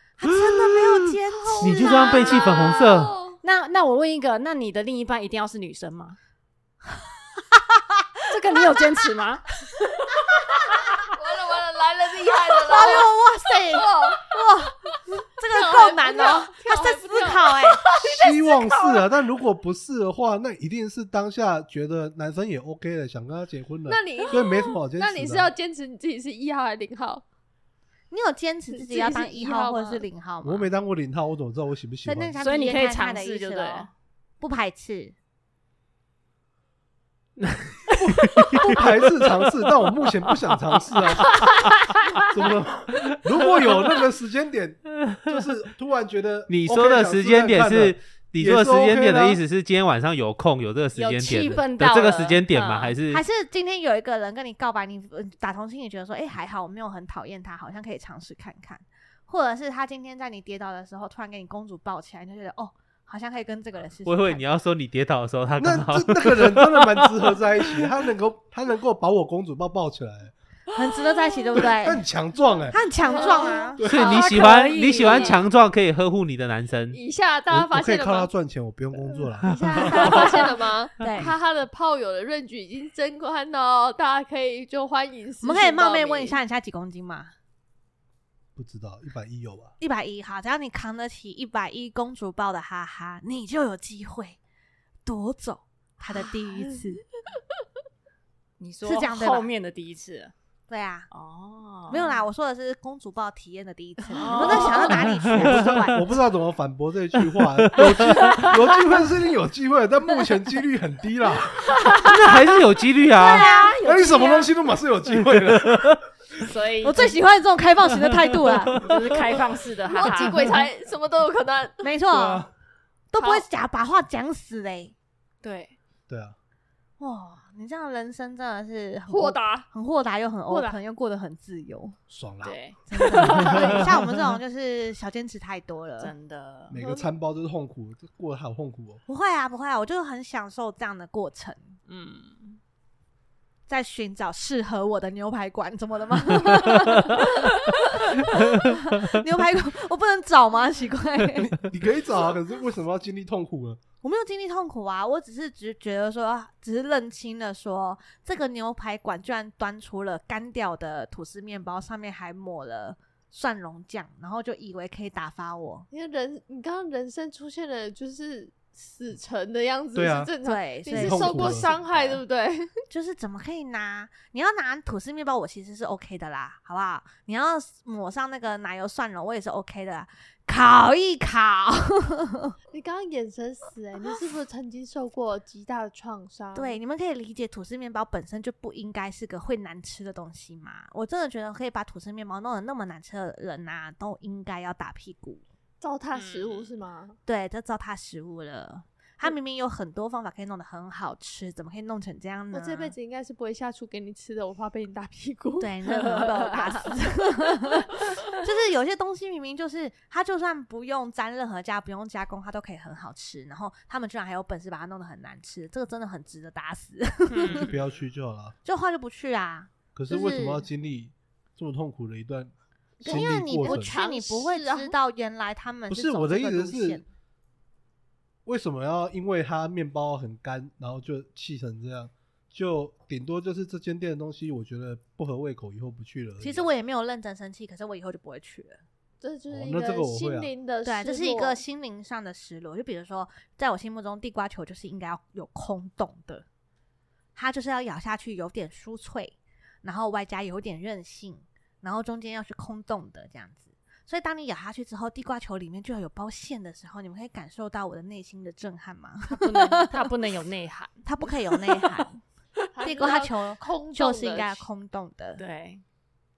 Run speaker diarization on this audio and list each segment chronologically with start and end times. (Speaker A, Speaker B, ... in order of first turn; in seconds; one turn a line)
Speaker A: 0.2-2.7
Speaker B: 0.5-3.1
Speaker C: 1.4-3.4
Speaker D: 3.4-6.2
Speaker A: 7.3-8.0
Speaker D: 8.3-10.0
Speaker C: 11.1-14.3
Speaker A: 12.6-17.8
Speaker C: 15.4-19.1
Speaker E: 18.0-25.5
Speaker C: 23.9-27.2
Speaker A: 28.1-30.7
Speaker C: 28.7-30.0
Speaker E: 30.4-32.4
Speaker A: 32.0-35.1
Speaker D: 32.4-33.9
Speaker B: 37.4-38.8
Speaker E: 38.0-41.4
Speaker D: 41.3-41.6
Speaker E: 42.3-49.4
Speaker B: 45.0-45.4
Speaker B: 46.5-53.2
Speaker D: 51.0-53.0
Speaker A: 53.1-64.4
Speaker B: 64.0-67.9
Speaker E: 65.6-70.3
Speaker A: 70.7-72.0
Speaker E: 71.7-72.8
Speaker A: 72.7-73.8
Speaker C: 73.0-74.2
Speaker D: 73.2-75.4
Speaker E: 73.8-74.3
Speaker B: 73.8-77.0
Speaker C: 75.0-75.4
Speaker C: 76.9-78.3
Speaker E: 77.5-80.2
Speaker C: 79.4-86.4
Speaker A: 79.5-81.3
Speaker A: 85.4-87.3
Speaker E: 88.5-89.7
Speaker A: 89.8-94.4
Speaker A: 95.0-97.0
Speaker D: 98.6-100.3
Speaker A: 98.8-99.5
Speaker A: 100.7-101.1
Speaker D: 101.1-102.2
Speaker A: 101.9-106.2
Speaker D: 104.1-105.1
Speaker B: 104.9-106.0
Speaker E: 105.2-112.0
Speaker B: 107.6-108.0
Speaker D: 108.2-108.5
Speaker D: 111.7-112.2
Speaker B: 112.0-113.5
Speaker A: 113.1-113.8
Speaker D: 113.2-114.5
Speaker E: 113.8-116.0
Speaker B: 115.3-116.0
Speaker D: 116.4-117.2
Speaker A: 116.8-118.8
Speaker D: 118.8-120.6
Speaker C: 119.9-121.9
Speaker A: 121.8-122.5
Speaker E: 122.1-122.5
Speaker A: 123.1-124.9
Speaker D: 125.4-125.8
Speaker E: 126.1-126.3
Speaker A: 127.0-132.0
Speaker C: 129.1-129.7
Speaker D: 130.5-130.8
Speaker E: 132.1-132.6
Speaker D: 132.4-133.9
Speaker A: 132.9-136.1
Speaker D: 136.0-136.8
Speaker E: 136.7-139.0
Speaker C: 136.8-137.1
Speaker A: 139.1-141.7
Speaker D: 141.9-142.6
Speaker A: 143.7-151.5
Speaker E: 151.3-153.8
Speaker A: 154.0-165.9
Speaker C: 165.9-172.7
Speaker E: 169.9-170.3
Speaker A: 170.4-171.7
Speaker E: 170.9-172.0
Speaker A: 172.9-182.6
Speaker C: 182.7-186.8
Speaker A: 186.5-195.4
Speaker C: 195.8-197.2
Speaker D: 196.1-196.7
Speaker A: 197.2-202.9
Speaker C: 202.5-207.2
Speaker A: 205.6-217.7
Speaker D: 217.3-217.7
Speaker E: 217.5-218.6
Speaker A: 218.6-220.7
Speaker E: 219.9-224.0
Speaker C: 223.0-224.9
Speaker A: 223.0-227.0
Speaker E: 225.9-227.0
Speaker E: 228.4-236.7
Speaker A: 236.4-238.8
Speaker C: 239.2-241.6
Speaker E: 239.5-240.5
Speaker A: 240.8-246.4
Speaker A: 247.3-260.1
Speaker D: 259.3-261.0
Speaker A: 261.0-262.2
Speaker C: 262.7-264.6
Speaker A: 262.8-265.4
Speaker D: 265.4-265.8